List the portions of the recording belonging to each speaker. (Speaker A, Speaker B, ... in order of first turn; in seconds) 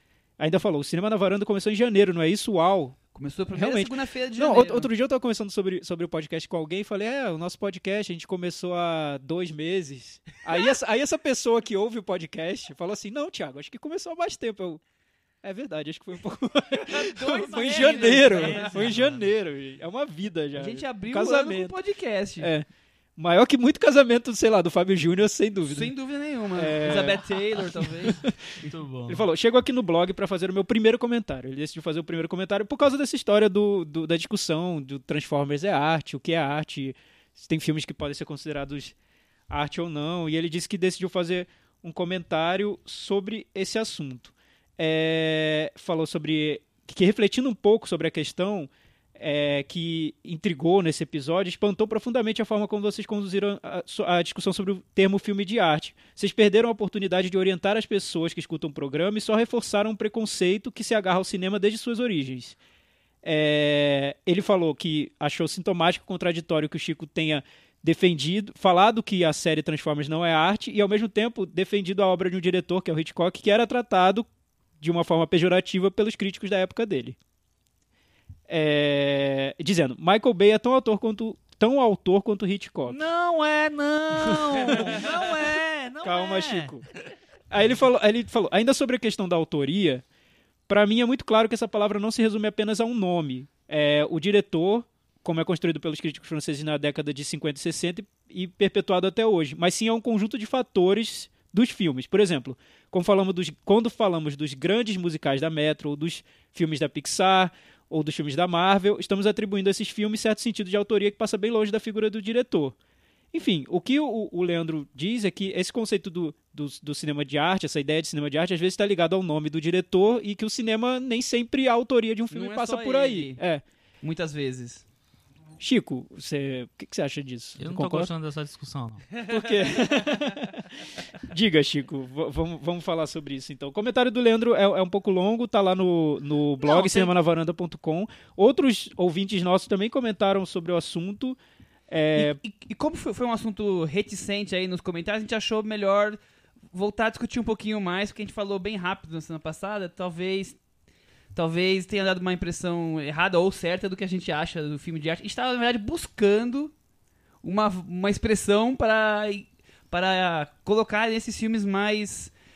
Speaker A: 0.4-3.0, 3.5-14.8, 15.4-21.8, 22.4-25.9, 26.6-28.4, 29.1-39.0, 39.5-62.6, 63.2-74.3, 74.8-77.2, 78.5-83.0, 84.2-85.1, 86.0-86.9, 87.5-90.0, 90.7-112.8, 113.3-123.6, 125.6-128.1, 129.3-141.4, 141.9-142.4
Speaker B: 3.1-4.9, 16.7-18.9, 20.6-22.5, 25.6-28.2, 122.3-123.4, 124.0-124.8, 142.2-146.2, 146.7-150.6, 151.3-156.7, 157.4-162.3
Speaker C: 17.6-19.4, 28.6-29.3, 82.9-86.8, 127.6-129.1, 136.6-137.1